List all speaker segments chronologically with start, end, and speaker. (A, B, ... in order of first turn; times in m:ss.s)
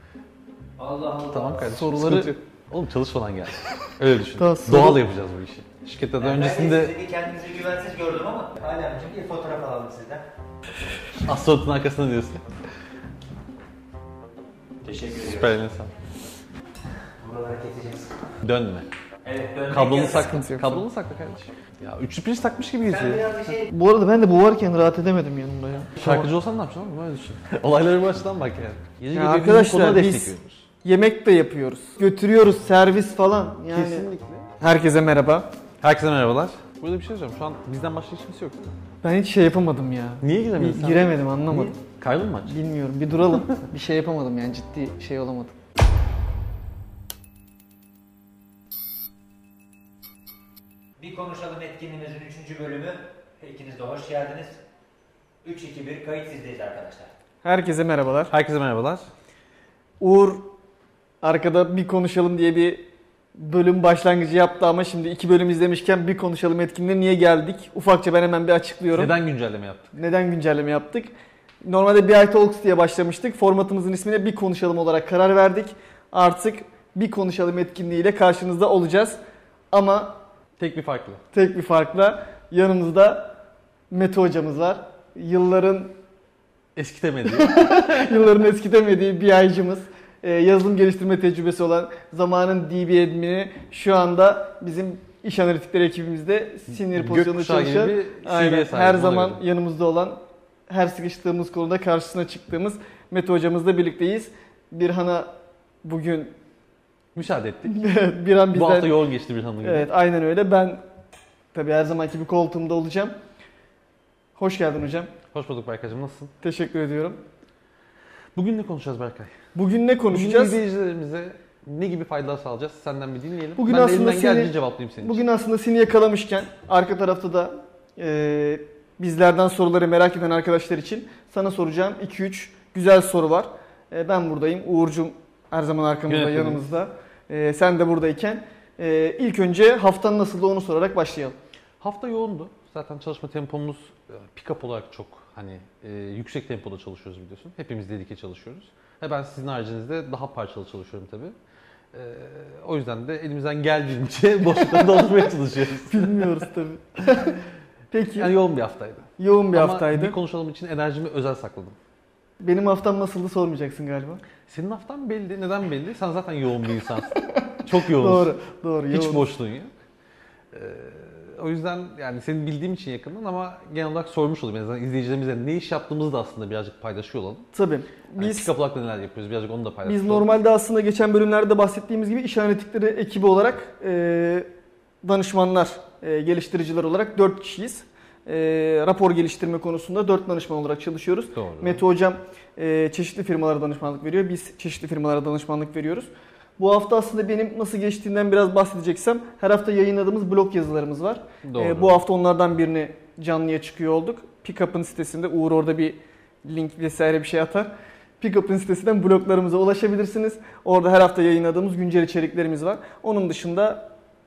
0:00.8-0:01.7 A
0:01.3-0:07.0 B
0:01.6-0:02.4 C
0:04.3-0:05.0 C
0:06.2-0:10.2 A
0:11.2-0:12.4 B
0:14.8-0:15.6 A
0:15.2-0:15.9 B
0:17.2-0:18.3 A
0:18.4-0:18.9 B
0:19.2-0:20.3 A
0:19.7-0:23.6 B
0:20.1-0:20.8 C
0:22.9-0:23.7 A
0:23.7-0:26.3 C
0:26.0-0:30.7 B
0:29.1-0:34.1 C
0:33.7-0:34.5 B
0:34.6-0:35.5 C
0:35.8-0:38.7 B
0:39.0-0:41.8 C
0:40.2-0:42.6 B
0:42.5-0:45.5 C
0:51.0-0:54.6 A
0:55.4-0:57.1 A
0:57.4-0:58.3 C
0:58.3-0:59.1 B
1:00.0-1:00.5 C
1:01.2-1:02.8 C
1:03.4-1:09.1 C
1:08.9-1:09.9 B
1:09.9-1:11.1 C
1:11.6-1:19.2 C
1:19.7-1:20.2 C
1:20.6-1:21.2 B
1:21.3-1:23.4 C
1:23.9-1:25.9 C
1:26.8-1:28.2 B
1:27.3-1:45.3 C
1:36.7-1:39.4 B
1:45.8-1:46.3 C
1:47.1-1:47.8 B
1:47.6-1:49.0 C
1:48.5-1:49.9 B
1:49.6-1:50.8 C
1:51.5-1:53.1 C
1:54.4-1:55.1 C
1:55.3-1:56.3 B
1:56.4-1:57.2 C
1:58.4-1:59.3 B
1:59.5-2:00.6 C
2:00.1-2:05.2 B
2:03.6-2:21.3 C
2:16.1-2:16.7 B
2:21.8-2:31.3 B
2:31.9-2:36.5 B
2:34.7-2:35.0 C
2:35.8-2:38.3 C
2:38.1-2:41.8 B
2:39.2-2:40.2 C
2:42.4-2:44.2 C
2:44.5-2:48.4 B
2:47.1-2:49.3 C
2:48.9-2:49.7 B
2:50.5-2:57.4 B
2:57.5-2:58.5 C
2:58.2-3:00.3 B
2:59.8-3:04.5 C
3:05.0-3:33.9 C
3:11.3-3:11.8 B
3:21.4-3:22.0 B